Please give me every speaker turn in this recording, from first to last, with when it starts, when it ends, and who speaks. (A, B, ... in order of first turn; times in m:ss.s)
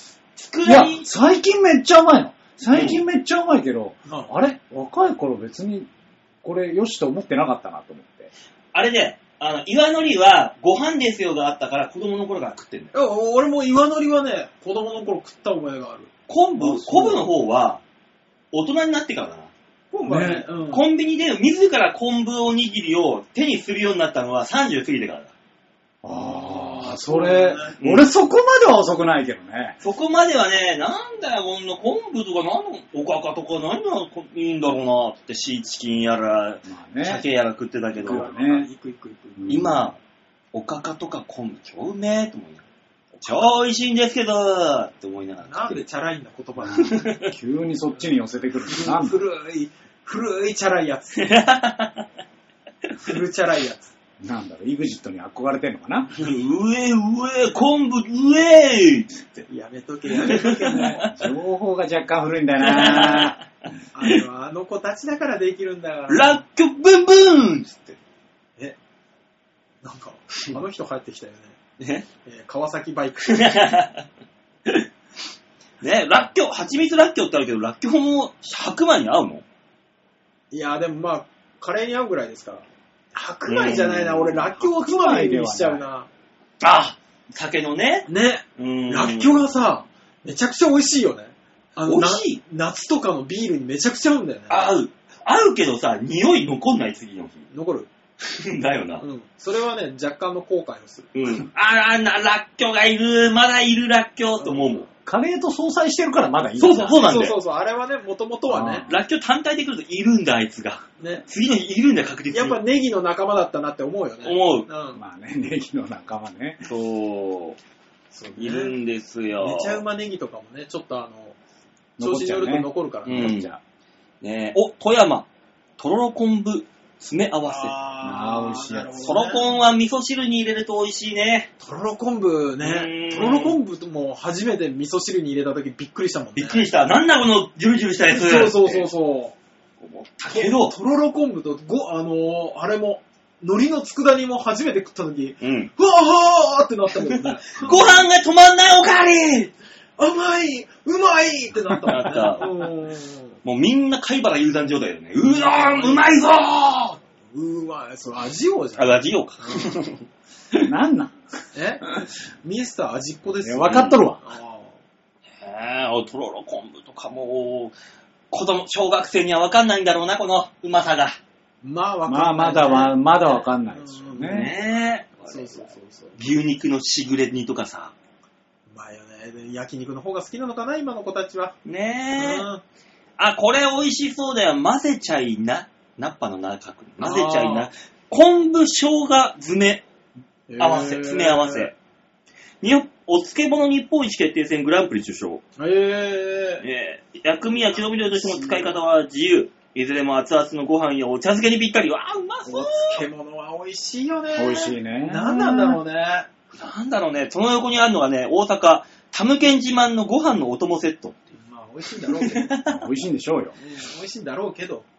0:00.4-0:01.0 A
0:00.6-0:05.9 B
0:02.7-0:03.0 A
0:04.1-0:04.3 C
0:06.4-0:08.3 B
0:08.7-0:12.9 A
0:12.9-0:16.1 C
0:16.3-0:17.8 A
0:16.6-0:17.3 B
0:18.5-0:19.5 A
0:19.9-0:20.8 C
0:20.1-0:20.5 B
0:20.7-0:25.3 A
0:26.0-0:29.8 B
0:26.1-0:27.8 C
0:27.8-0:28.1 A
0:29.8-0:38.3 A
0:36.7-0:37.2 B
0:38.0-0:38.7 B
0:38.0-0:39.6 C
0:39.4-0:39.8 B
0:39.5-0:40.0 A
0:40.5-0:42.6 A
0:43.2-0:43.5 C
0:43.2-0:45.8 A
0:45.4-0:47.1 C
0:46.6-0:49.2 B
0:46.8-0:47.3 A
0:48.7-0:51.3 C
0:51.2-0:52.1 A
0:53.0-0:53.9 C
0:54.2-0:56.1 B
0:56.2-0:59.5 A
0:59.5-1:01.1 C
1:00.2-1:01.1 A
1:00.7-1:03.4 B
1:02.6-1:03.4 A
1:03.9-1:06.4 C
1:06.1-1:08.0 A
1:09.8-1:11.6 C
1:11.8-1:12.1 A
1:12.2-1:13.7 C
1:13.3-1:14.0 A
1:15.8-1:19.4 A
1:20.5-1:26.1 C
1:23.5-1:24.4 A
1:24.6-1:25.8 B
1:26.6-1:29.4 A
1:28.1-1:34.6 C
1:31.8-1:32.4 A
1:34.5-1:37.5 A
1:37.5-1:37.9 C
1:38.2-1:39.0 A
1:39.0-1:41.1 C
1:41.1-1:44.9 A
1:44.4-1:44.9 C
1:45.0-1:47.1 B
1:46.6-1:47.4 A
1:46.9-1:48.9 C
1:48.5-1:49.0 B
1:48.9-1:52.6 A
1:51.0-1:51.2 C
1:52.3-1:55.0 C
1:54.2-1:54.7 A
1:54.9-1:56.6 B
1:56.6-1:57.6 A
1:58.1-1:58.8 C
1:58.4-1:59.8 A
1:59.4-2:01.4 C
2:02.0-2:03.6 B
2:02.0-2:03.4 C
2:03.1-2:03.5 A
2:04.2-2:05.3 A
2:05.8-2:07.7 A
2:07.4-2:09.6 C
2:08.0-2:09.0 B
2:09.0-2:11.5 A
2:11.6-2:16.6 C
2:12.6-2:13.6 A
2:16.4-2:18.9 A
2:18.1-2:19.4 C
2:19.8-2:20.8 A
2:20.3-2:28.1 C
2:25.4-2:25.7 A
2:27.1-2:29.5 A
2:30.0-2:33.4 C
2:31.8-2:32.7 A
2:33.4-2:37.0 A
2:35.2-2:36.1 C
2:37.2-2:39.7 C
2:38.8-2:40.7 A
2:40.6-2:41.2 B
2:41.5-2:44.8 C
2:43.4-2:44.3 B
2:43.7-2:44.0 A
2:45.4-2:47.8 A
2:48.3-2:51.2 A
2:51.6-2:54.6 C
2:52.1-2:54.5 B
2:54.2-2:57.9 A
2:55.2-2:56.3 C
2:58.7-3:01.6 C
3:01.6-3:02.5 A
3:02.2-3:02.6 C
3:03.2-3:09.8 A
3:07.0-3:07.7 C
3:10.5-3:11.7 C
3:10.6-3:11.7 A
3:12.6-3:15.4 A
3:15.6-3:16.7 C
3:16.6-3:23.0 A
3:17.5-3:18.8 C
3:22.5-3:26.3 C
3:24.4-3:25.8 B
3:26.6-3:31.3 A
3:31.4-3:32.6 C
3:32.0-3:32.8 A
3:32.7-3:33.6 B
3:33.6-3:34.8 C